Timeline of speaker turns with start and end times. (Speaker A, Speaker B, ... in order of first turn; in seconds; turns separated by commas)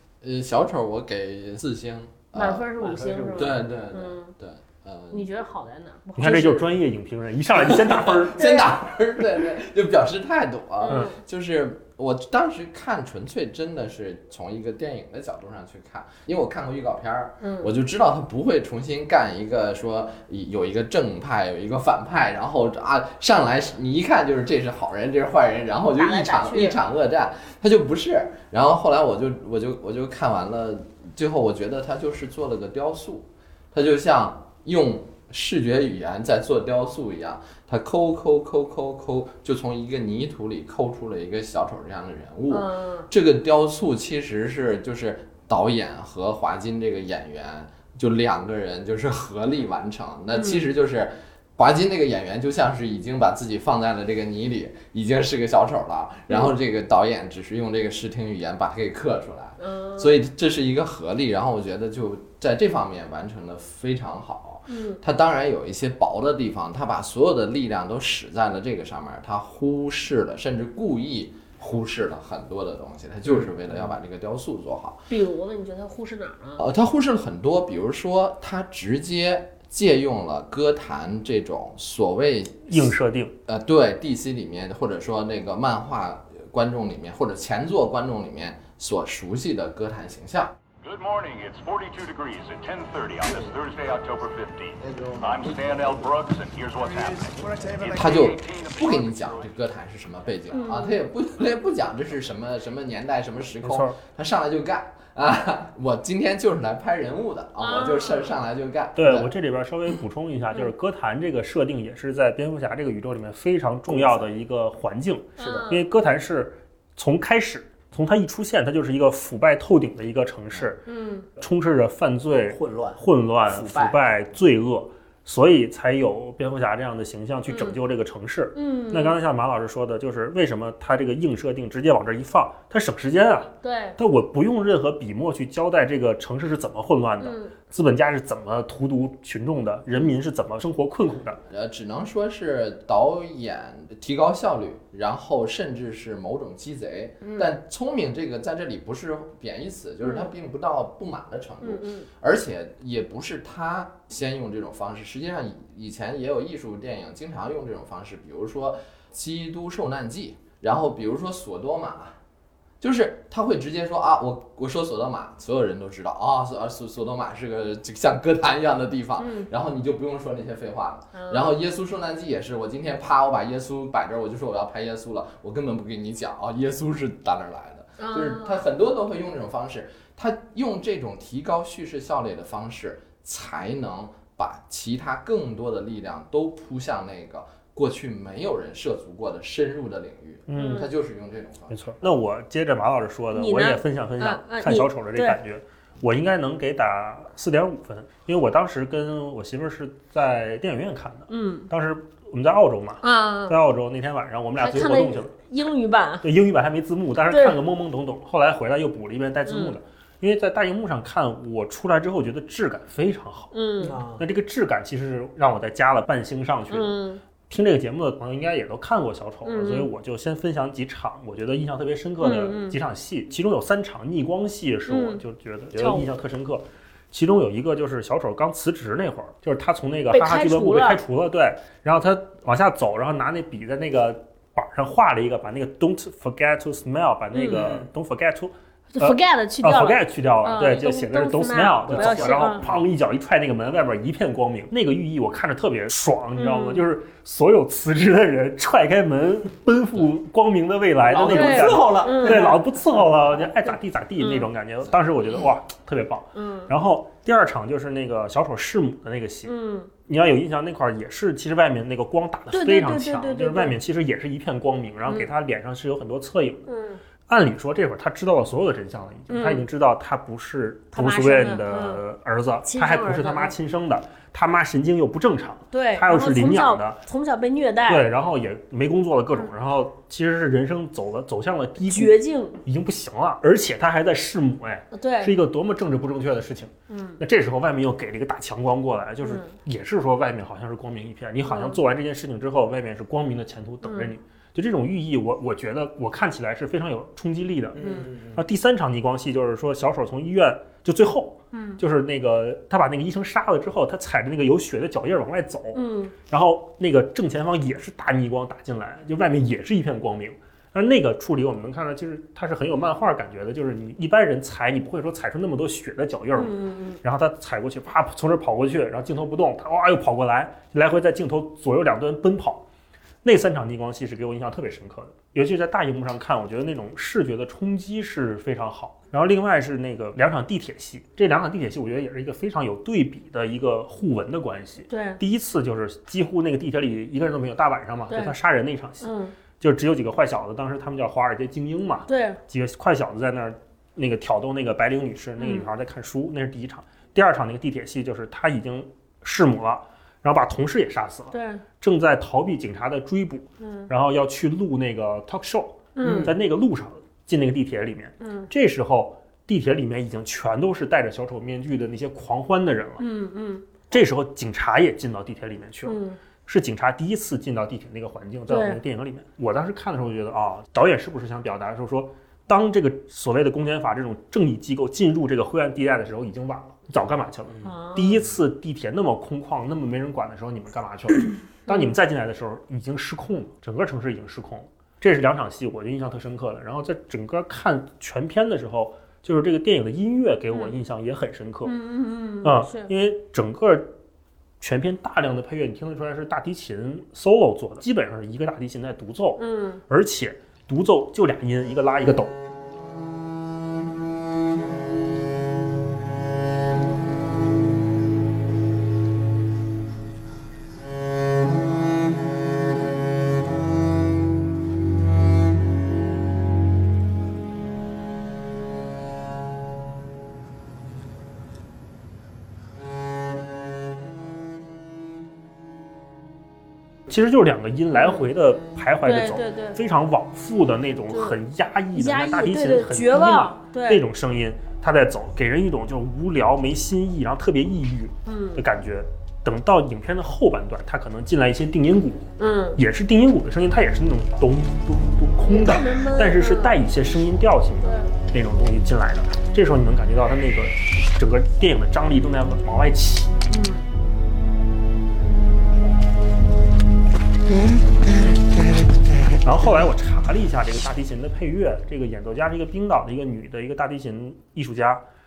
Speaker A: 0.2-2.7, Speaker B: 2.3-4.3, Speaker C: 2.8-3.5, Speaker A: 3.3-5.3, Speaker B: 5.1-6.7, Speaker D: 6.2-8.4, Speaker A: 7.5-75.0, Speaker B: 8.3-8.7, Speaker B: 10.8-11.2, Speaker B: 17.4-17.7, Speaker B: 25.9-26.8, Speaker B: 42.5-43.1, Speaker B: 50.3-50.6, Speaker B: 59.6-60.2, Speaker B: 64.7-65.0, Speaker B: 75.1-76.6, Speaker A: 76.6-90.5, Speaker D: 82.7-83.3, Speaker E: 90.8-99.6, Speaker A: 97.9-109.3, Speaker B: 100.5-101.0, Speaker D: 103.6-104.0, Speaker B: 107.6-108.3, Speaker D: 109.0-120.8, Speaker C: 113.9-114.3, Speaker C: 115.4-115.7, Speaker B: 115.4-115.8, Speaker B: 120.8-121.3, Speaker D: 121.4-141.4, Speaker C: 122.5-124.0, Speaker B: 127.5-127.8, Speaker B: 128.5-129.2, Speaker B: 133.6-134.0, Speaker B: 137.2-137.5, Speaker A: 141.4-162.2, Speaker B: 147.2-147.5, Speaker B: 150.0-150.3, Speaker B: 151.6-152.1, Speaker A: 162.8-191.8, Speaker B: 169.2-169.5, Speaker B: 171.1-171.5, Speaker B: 178.0-178.6, Speaker D: 190.5-190.9, Speaker B: 190.5-190.9, Speaker D: 191.7-205.3, Speaker B: 193.3-195.4, Speaker B: 201.3-201.7, Speaker B: 203.0-203.6, Speaker B: 204.6-206.2, Speaker D: 206.2-213.5, Speaker B: 207.3-207.6, Speaker B: 209.4-209.7, Speaker B: 213.5-214.0, Speaker C: 213.8-214.2, Speaker D: 214.2-216.9, Speaker B: 216.7-217.2, Speaker D: 217.5-266.7, Speaker B: 219.4-219.9, Speaker B: 222.2-222.8, Speaker B: 224.9-225.2, Speaker B: 225.8-226.1, Speaker B: 230.1-231.0, Speaker B: 237.3-237.6, Speaker C: 237.4-237.9, Speaker B: 238.9-242.6, Speaker C: 241.9-242.8, Speaker B: 246.3-246.8, Speaker C: 251.0-253.0, Speaker B: 251.3-252.5, Speaker B: 254.2-254.5, Speaker B: 256.3-256.7, Speaker B: 259.4-259.9, Speaker B: 262.5-263.8, Speaker B: 265.1-265.3, Speaker B: 266.7-267.0, Speaker D: 267.3-277.0, Speaker B: 269.3-269.6, Speaker B: 270.9-272.0, Speaker B: 272.6-273.5, Speaker B: 275.7-278.1, Speaker D: 277.9-322.6, Speaker B: 281.9-282.6, Speaker B: 284.9-285.3, Speaker B: 286.9-287.2, Speaker B: 289.2-289.5, Speaker B: 291.4-291.8, Speaker B: 293.8-294.1, Speaker C: 297.7-298.4, Speaker B: 297.8-298.1, Speaker B: 301.5-301.8, Speaker B: 305.7-306.1, Speaker B: 316.4-317.0, Speaker D: 323.2-363.0, Speaker B: 334.9-335.2, Speaker B: 338.1-338.3, Speaker B: 339.0-339.3, Speaker B: 342.1-342.4, Speaker B: 345.4-345.7, Speaker B: 351.3-351.6, Speaker B: 353.6-353.9, Speaker B: 355.9-356.3, Speaker B: 358.2-358.5, Speaker B: 363.0-363.8, Speaker D: 363.9-391.7, Speaker B: 365.9-366.2, Speaker B: 368.5-368.8, Speaker C: 377.5-377.8, Speaker B: 377.6-378.2, Speaker B: 381.7-381.9, Speaker B: 391.6-392.9, Speaker D: 392.4-393.9, Speaker D: 394.6-402.3, Speaker B: 399.4-399.8, Speaker D: 427.1-453.4, Speaker B: 427.9-428.2, Speaker B: 429.0-429.8, Speaker B: 431.1-431.4, Speaker B: 431.9-434.0, Speaker B: 438.2-438.6, Speaker B: 442.4-442.8, Speaker B: 445.4-446.8, Speaker B: 447.8-448.1, Speaker B: 453.5-453.9, Speaker D: 459.4-465.0